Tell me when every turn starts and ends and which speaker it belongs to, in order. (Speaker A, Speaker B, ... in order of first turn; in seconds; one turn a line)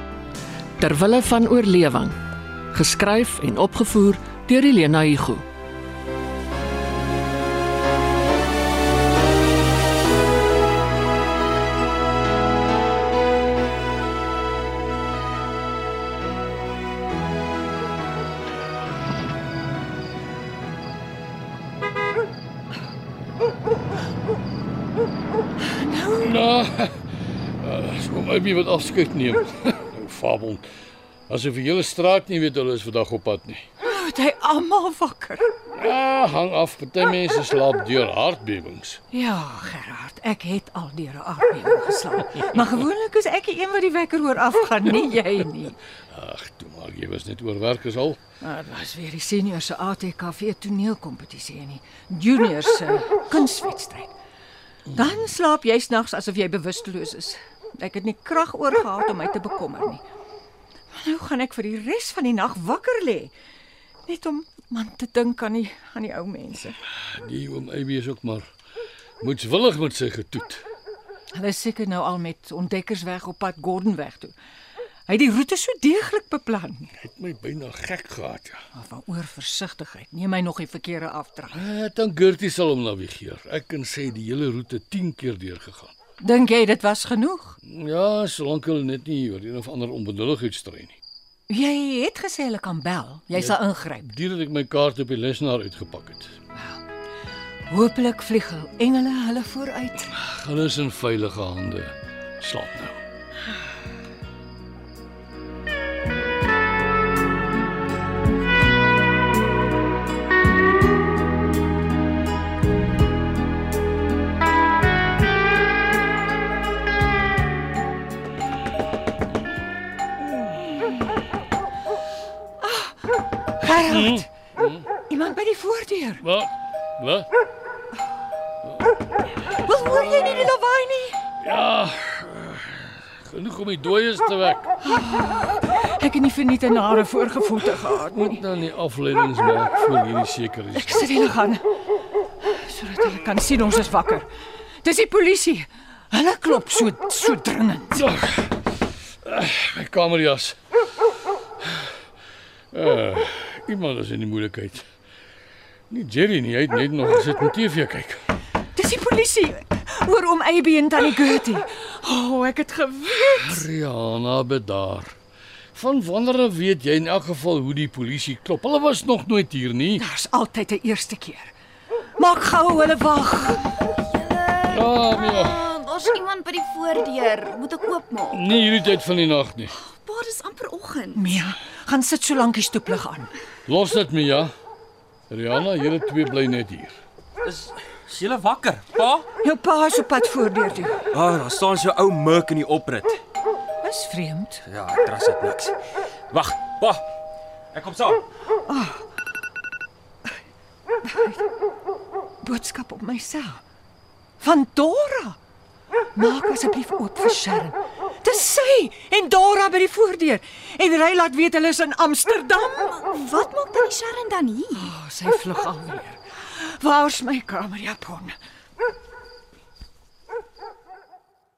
Speaker A: 0.8-2.2
Speaker A: 2.7-5.4
Speaker B: 25.6-26.3
Speaker C: 26.2-27.0
Speaker C: 27.6-30.7
Speaker C: 31.3-33.7
Speaker B: 33.8-35.5
Speaker C: 35.8-39.0
Speaker B: 39.1-45.8
Speaker C: 46.1-48.2
Speaker B: 48.4-54.1
Speaker B: 54.9-60.0
Speaker B: 60.9-63.3
Speaker B: 64.1-66.8
Speaker C: 67.1-68.5
Speaker C: 69.2-70.6
Speaker B: 71.3-74.3
Speaker B: 75.1-76.9
Speaker C: 77.0-78.6
Speaker B: 78.7-81.6
Speaker C: 81.5-85.9
Speaker B: 86.2-87.6
Speaker C: 87.7-91.0
Speaker B: 91.5-94.1
Speaker C: 93.3-96.3
Speaker B: 97.7-100.1
Speaker C: 100.2-103.0
Speaker B: 123.6-124.3
Speaker C: 123.8-124.9
Speaker B: 125.1-126.2
Speaker C: 126.2-127.3
Speaker C: 128.6-128.9
Speaker B: 129.6-131.2
Speaker C: 129.9-130.5
Speaker C: 131.4-134.7
Speaker B: 134.8-138.4
Speaker C: 138.1-141.2
Speaker B: 140.7-141.7
Speaker B: 142.4-144.3
Speaker B: 144.8-148.1
Speaker C: 148.0-148.6
Speaker C: 149.2-150.6
Speaker C: 151.6-151.9
Speaker C: 152.7-154.8
Speaker C: 155.9-158.2
Speaker B: 158.8-163.6
Speaker C: 163.2-165.2
Speaker C: 165.7-170.0
Speaker B: 170.0-171.5
Speaker B: 172.2-173.7
Speaker D: 173.8-178.5
Speaker C: 174.7-175.7
Speaker C: 178.3-179.7
Speaker D: 179.7-181.2
Speaker B: 181.2-183.3
Speaker C: 183.7-184.5
Speaker C: 185.3-187.0
Speaker E: 188.1-189.2
Speaker B: 189.4-191.0
Speaker E: 191.1-193.1
Speaker B: 193.8-194.6
Speaker E: 194.7-195.7
Speaker E: 196.3-197.0
Speaker E: 197.7-198.2
Speaker B: 198.7-199.0
Speaker B: 202.4-203.6
Speaker B: 204.4-205.4
Speaker B: 206.2-213.2
Speaker D: 213.1-214.9
Speaker B: 214.7-218.4